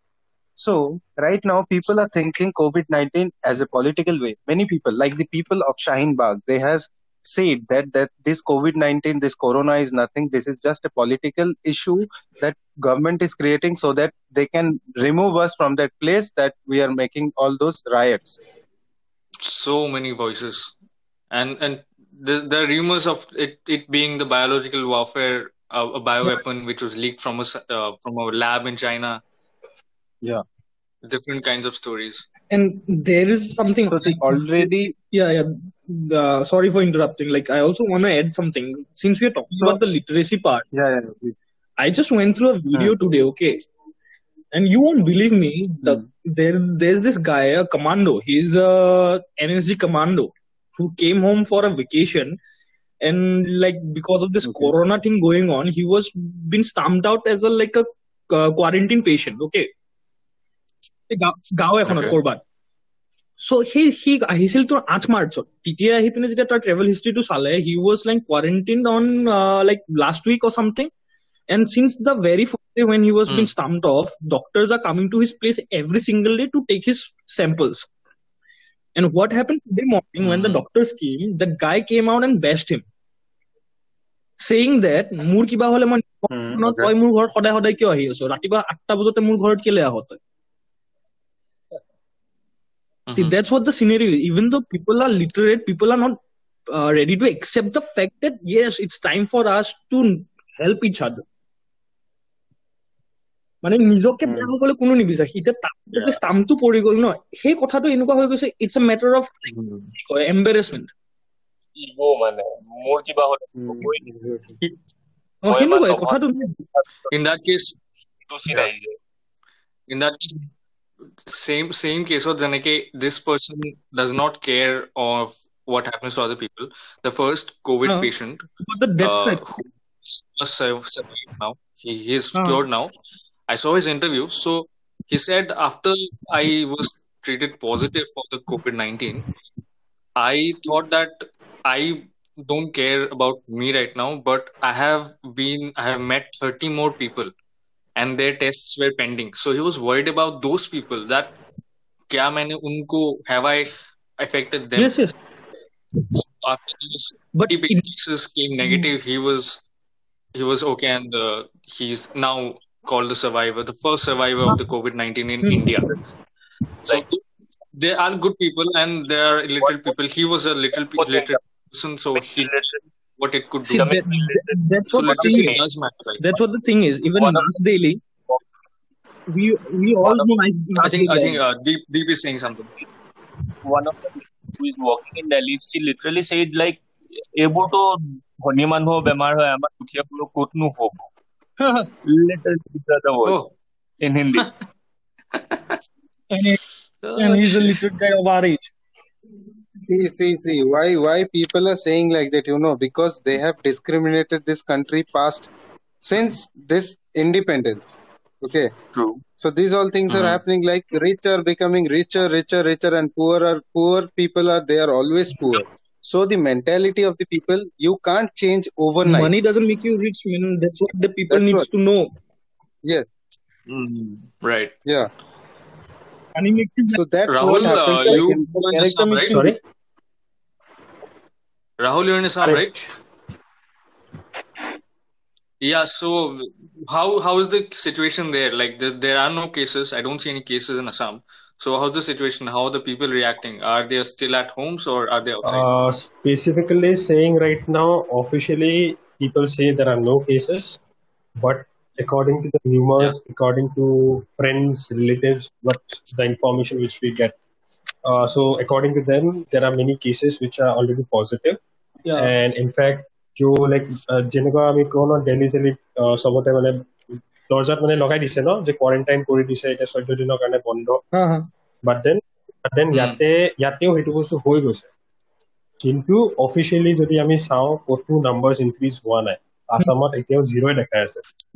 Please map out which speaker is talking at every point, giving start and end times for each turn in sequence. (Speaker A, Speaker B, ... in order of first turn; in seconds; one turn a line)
Speaker A: 0.6-18.4
Speaker B: 19.4-20.7
Speaker B: 21.3-29.2
Speaker B: 31.0-32.3
Speaker C: 32.5-40.7
Speaker A: 33.9-35.0
Speaker A: 40.7-41.4
Speaker C: 41.8-43.6
Speaker C: 44.5-52.4
Speaker A: 45.8-46.1
Speaker C: 53.0-59.7
Speaker A: 54.5-54.7
Speaker C: 61.1-62.4
Speaker B: 61.9-62.2
Speaker C: 63.4-70.9
Speaker C: 71.5-77.9
Speaker C: 79.0-82.9
Speaker B: 80.2-80.6
Speaker C: 84.4-90.2
Speaker A: 86.3-86.9
Speaker B: 93.1-93.4
Speaker C: 93.2-101.2
Speaker C: 103.6-110.9
Speaker B: 109.5-109.9
Speaker D: 111.8-114.1
Speaker A: 113.6-114.6
Speaker C: 115.4-116.6
Speaker D: 115.5-117.1
Speaker B: 117.1-117.8
Speaker D: 118.3-119.0
Speaker B: 119.9-120.5
Speaker B: 121.2-128.5
Speaker C: 128.7-129.6
Speaker B: 129.0-132.9
Speaker C: 132.3-132.6
Speaker B: 133.5-139.3
Speaker B: 140.2-147.3
Speaker B: 148.0-151.4
Speaker B: 152.1-155.0
Speaker C: 154.8-155.2
Speaker B: 156.2-159.6
Speaker C: 157.3-157.8
Speaker C: 158.6-158.9
Speaker B: 160.3-165.9
Speaker C: 165.4-165.7
Speaker B: 166.9-167.2
Speaker B: 167.7-172.5
Speaker D: 169.6-169.9
Speaker D: 170.8-171.4
Speaker D: 172.2-172.8
Speaker B: 173.2-173.9
Speaker C: 173.7-175.6
Speaker D: 173.7-175.6
Speaker B: 174.9-176.4
Speaker C: 176.2-178.0
Speaker D: 177.2-177.5
Speaker C: 179.3-181.4
Speaker D: 180.0-180.3
Speaker B: 180.8-182.8
Speaker D: 183.6-191.1
Speaker C: 191.6-191.9
Speaker D: 192.0-193.4
Speaker B: 193.2-193.5
Speaker D: 194.0-194.5
Speaker B: 195.4-195.8
Speaker C: 196.3-196.6
Speaker B: 197.0-197.8
Speaker C: 197.2-198.7
Speaker A: 199.8-205.5
Speaker A: 206.0-208.7
Speaker D: 208.9-209.2
Speaker A: 209.4-219.3
Speaker B: 210.1-210.4
Speaker C: 219.0-222.1
Speaker A: 221.3-221.7
Speaker B: 223.7-224.8
Speaker C: 226.3-227.0
Speaker A: 226.9-229.3
Speaker B: 227.3-229.4
Speaker C: 228.0-229.6
Speaker E: 229.3-229.6
Speaker B: 231.8-232.7
Speaker E: 232.4-232.9
Speaker B: 235.6-245.7
Speaker E: 245.4-250.8
Speaker E: 251.4-257.4
Speaker E: 258.0-261.6
Speaker C: 262.1-262.3
Speaker E: 262.2-266.9
Speaker E: 267.5-271.0
Speaker C: 271.1-271.5
Speaker E: 271.8-274.9
Speaker B: 272.9-273.2
Speaker E: 275.8-281.2